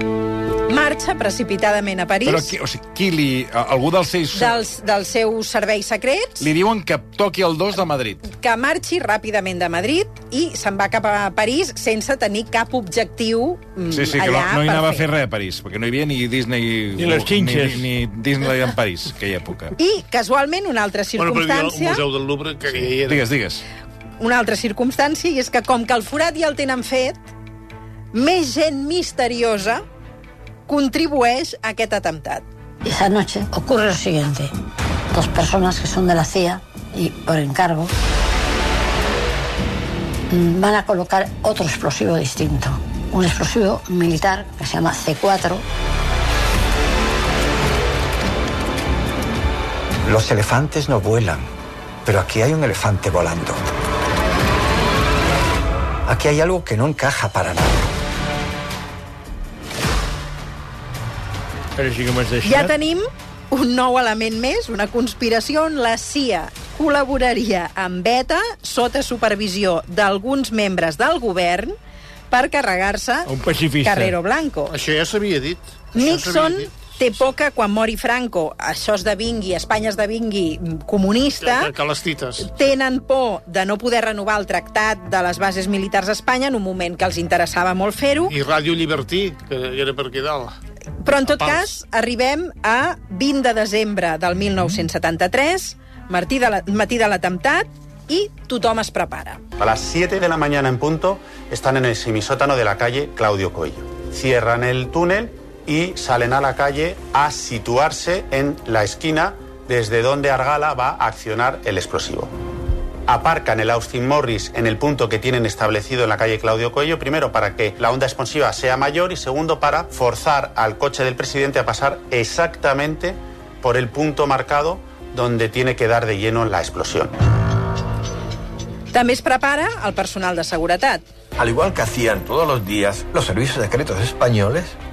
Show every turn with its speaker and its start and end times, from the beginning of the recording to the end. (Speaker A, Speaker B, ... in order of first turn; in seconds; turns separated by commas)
Speaker A: 0.7-2.5, Speaker B: 2.2-4.6, Speaker A: 4.3-6.5, Speaker B: 6.4-8.2, Speaker A: 8.3-15.1, Speaker B: 13.9-19.7, Speaker C: 17.0-17.9, Speaker A: 19.8-22.0, Speaker D: 21.2-23.2, Speaker B: 22.7-23.6, Speaker A: 24.2-27.2, Speaker A: 28.1-29.8, Speaker A: 30.7-32.4, Speaker E: 32.8-34.5, Speaker E: 35.1-37.9, Speaker E: 40.3-45.6, Speaker F: 50.0-51.5, Speaker F: 52.0-53.7, Speaker F: 56.0-57.9, Speaker C: 61.8-62.7, Speaker A: 62.4-71.7, Speaker A: 72.3-73.3, Speaker C: 73.2-74.1, Speaker A: 73.8-74.7, Speaker D: 74.7-76.9, Speaker A: 75.9-81.7, Speaker D: 81.4-82.5, Speaker A: 82.4-88.3, Speaker D: 88.3-90.6, Speaker A: 91.0-99.4, Speaker D: 91.1-91.7, Speaker G: 99.6-112.3, Speaker G: 113.1-127.1, Speaker A: 128.9-131.0, Speaker H: 131.4-134.8